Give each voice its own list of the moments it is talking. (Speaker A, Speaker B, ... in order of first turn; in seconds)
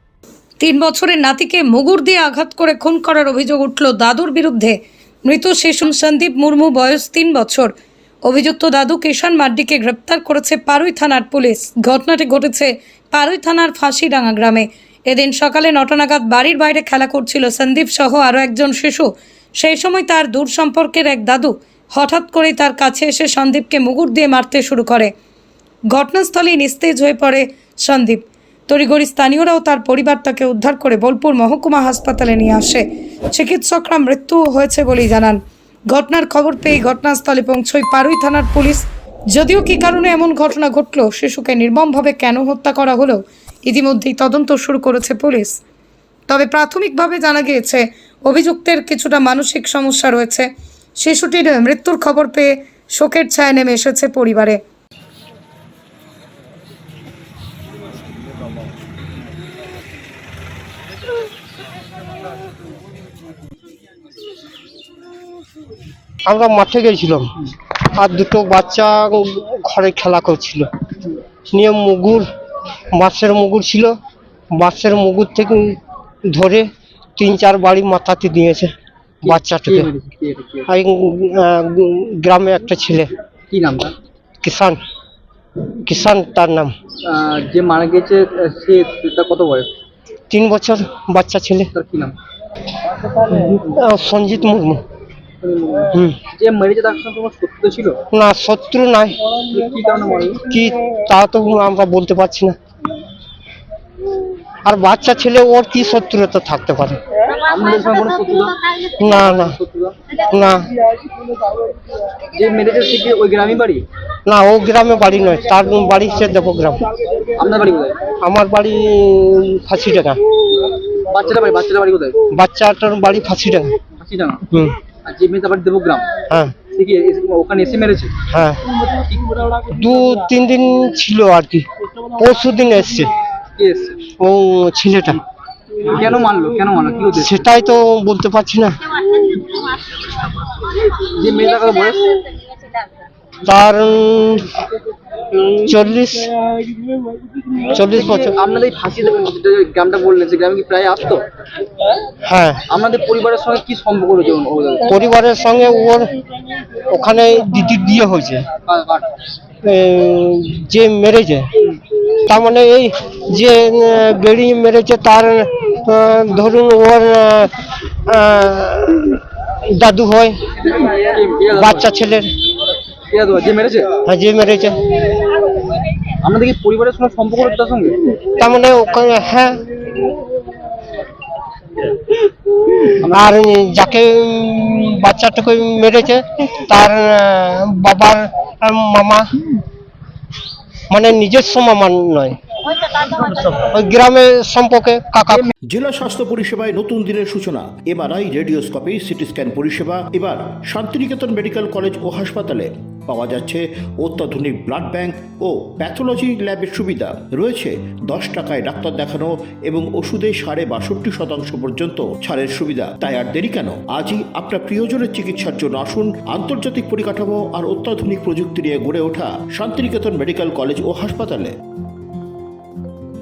Speaker A: 0.6-7.7, 8.2-25.1, 25.9-45.6, 46.3-54.6
Speaker B: 66.2-67.3, 67.9-70.7, 71.5-72.3, 72.9-73.9, 74.5-78.7, 79.2-79.9, 80.7-83.1, 84.4-84.8, 85.8-86.7, 90.3-91.7, 93.2-94.8, 98.1-99.2, 100.5-102.6, 104.7-107.0, 109.0-109.6, 110.3-110.7, 114.3-116.8, 118.2-120.2, 122.3-123.7, 126.3-126.5, 128.3-128.6, 129.7-131.7, 132.2-133.1, 134.2-135.2, 137.1-138.8, 143.5-144.5, 145.4-146.3, 147.7-148.3, 152.2-152.6, 154.9-156.1, 156.9-158.4, 159.6-161.5, 162.2-167.5, 168.1-170.4, 171.5-172.3, 174.1-174.8, 178.4-179.6, 183.1-189.3, 190.9-195.5
Speaker C: 79.2-80.7, 83.5-84.0, 87.1-89.7, 91.7-92.2, 95.4-98.0, 99.5-100.4, 107.4-110.0, 112.4-113.8, 117.4-118.0, 121.1-122.2, 124.0-124.4, 125.0-126.1, 126.7-128.1, 129.1-129.4, 133.6-134.0, 135.9-137.4, 141.0-142.4, 147.8-151.3, 152.7-154.9, 158.7-159.1, 170.6-171.9, 173.1-174.0, 176.2-178.0, 183.0-183.3
Speaker D: 195.7-221.5